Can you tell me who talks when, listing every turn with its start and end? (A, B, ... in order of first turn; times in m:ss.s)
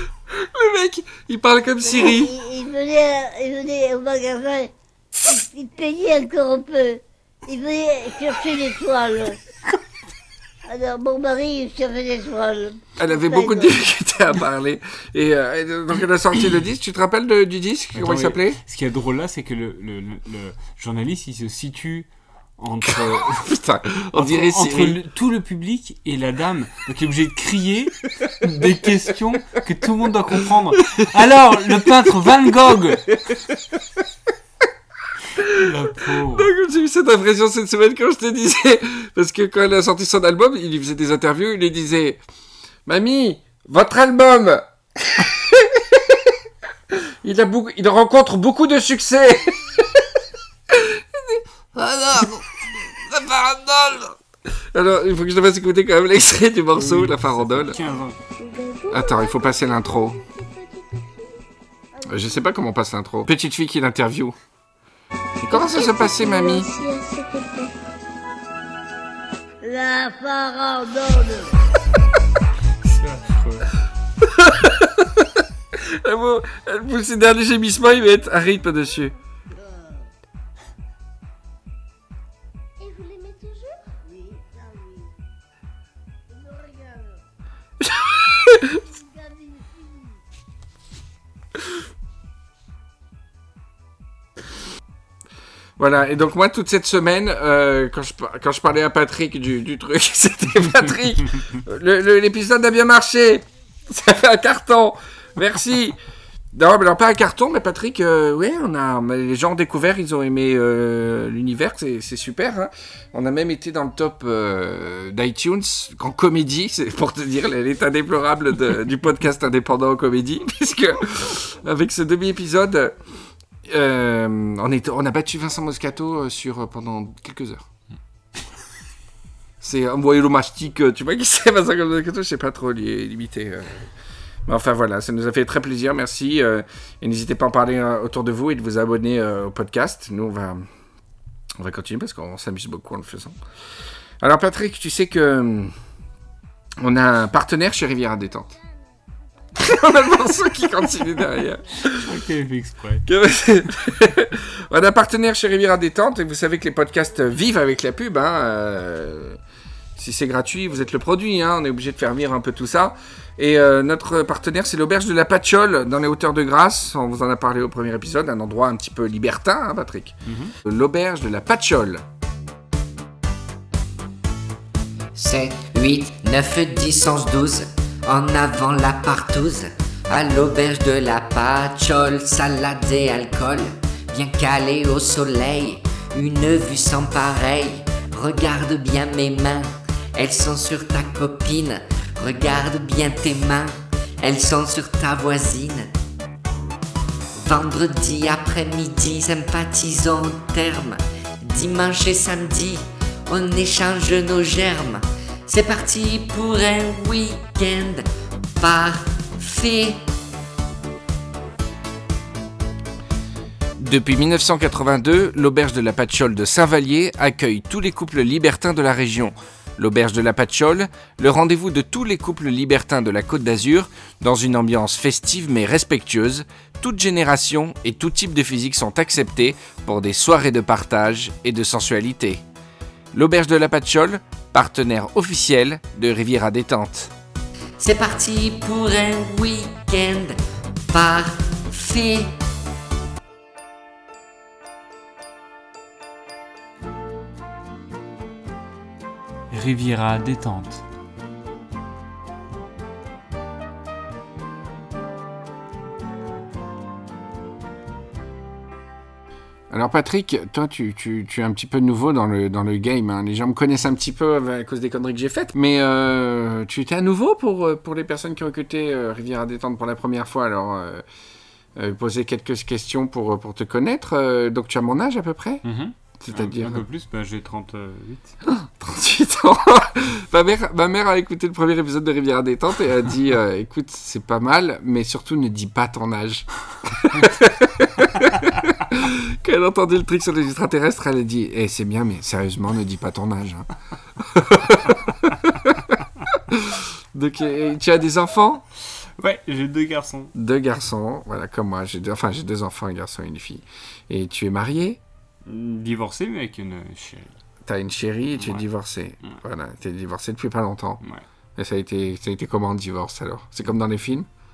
0:00.3-0:02.3 A
0:01.8-0:09.4 B
0:10.7-0:13.8 B
0:13.0-0:18.6 A
0:17.9-0:23.5 C
0:22.8-0:25.0 A
0:24.1-0:33.0 C
0:33.1-0:33.8 A
0:35.4-0:36.5 C
0:35.4-0:42.2 A
0:42.8-0:46.4 A
0:46.9-0:50.1 A
0:50.7-0:57.8 A
0:56.7-0:58.2 C
0:58.4-0:59.5 B
0:58.9-1:00.2 A
1:00.3-1:01.2 B
1:02.0-1:04.4 A
1:05.4-1:06.7 A
1:05.9-1:07.7 B
1:09.6-1:11.5 B
1:12.8-1:13.7 C
1:14.2-1:19.1 A
1:19.5-1:19.9 B
1:22.8-1:25.1 B
1:26.3-1:27.1 B
1:27.8-1:28.8 A
1:29.0-1:29.8 B
1:35.8-1:46.0 A
1:46.5-2:03.0 A
2:03.6-2:07.6 A
2:09.6-2:13.9 A
2:14.4-2:20.7 A
2:21.6-2:23.4 A
2:24.2-2:25.7 A
2:26.8-2:28.6 A
2:29.5-2:32.1 A
2:31.8-2:33.1 C
2:33.1-2:39.4 A
2:40.0-2:52.0 A
2:50.2-2:50.5 C
2:55.1-3:15.9 D
3:17.3-3:28.0 D
3:28.6-3:30.0 D
3:33.8-3:52.4 A
3:53.1-3:57.1 A
3:57.8-4:00.4 D
4:00.9-4:02.4 D
4:09.5-4:10.8 C
4:19.7-4:31.0 A
4:31.8-4:35.6 A
4:35.6-4:38.4 C
4:36.2-4:36.8 A
4:38.4-4:58.6 A
4:58.9-5:00.3 C
5:00.3-5:05.0 A
5:05.4-5:07.4 C
5:07.6-5:11.0 A
5:08.4-5:08.6 C
5:11.6-5:14.3 A